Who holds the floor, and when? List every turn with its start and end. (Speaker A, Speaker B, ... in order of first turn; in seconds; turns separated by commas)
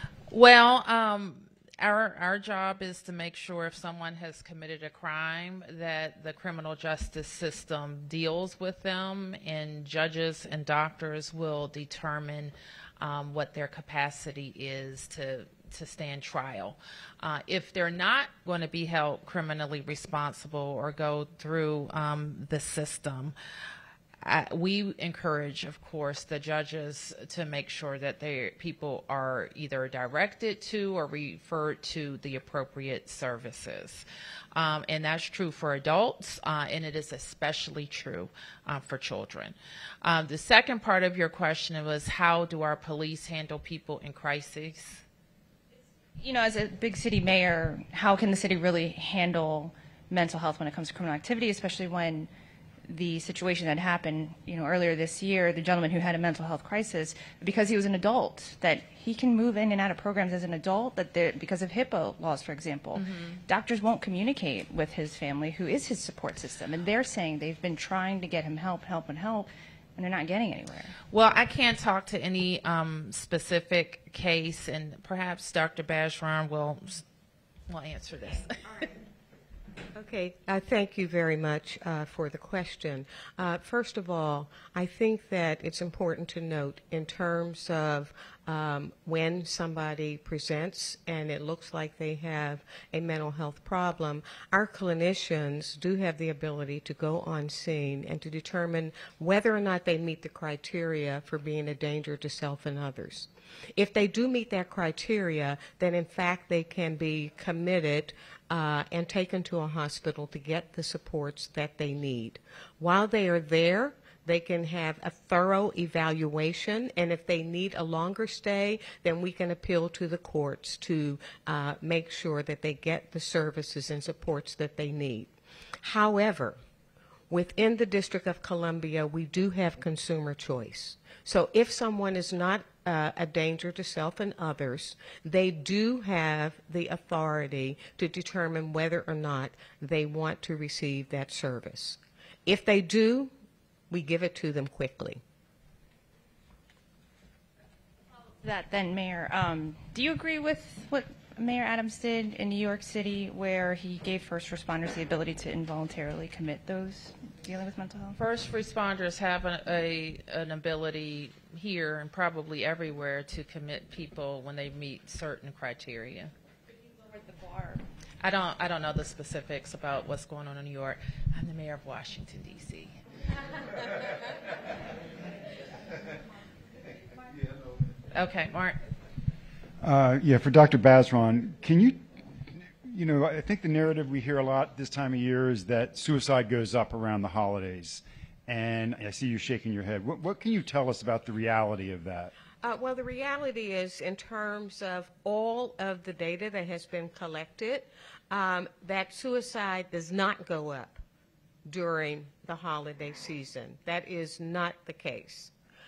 Speaker A: 0.3-23.4, Speaker A: 24.2-45.0, Speaker B: 46.2-52.3, Speaker B: 52.9-71.0, Speaker A: 63.0-63.4, Speaker A: 71.1-77.0, Speaker A: 77.7-78.9, Speaker C: 80.0-125.3, Speaker C: 125.8-126.6, Speaker C: 127.3-143.3, Speaker C: 143.9-145.2, Speaker B: 148.4-158.2, Speaker A: 158.2-166.3, Speaker B: 166.9-167.8, Speaker A: 168.2-173.0, Speaker A: 178.1-178.8, Speaker D: 179.8-192.3, Speaker C: 192.6-201.0, Speaker C: 201.7-205.5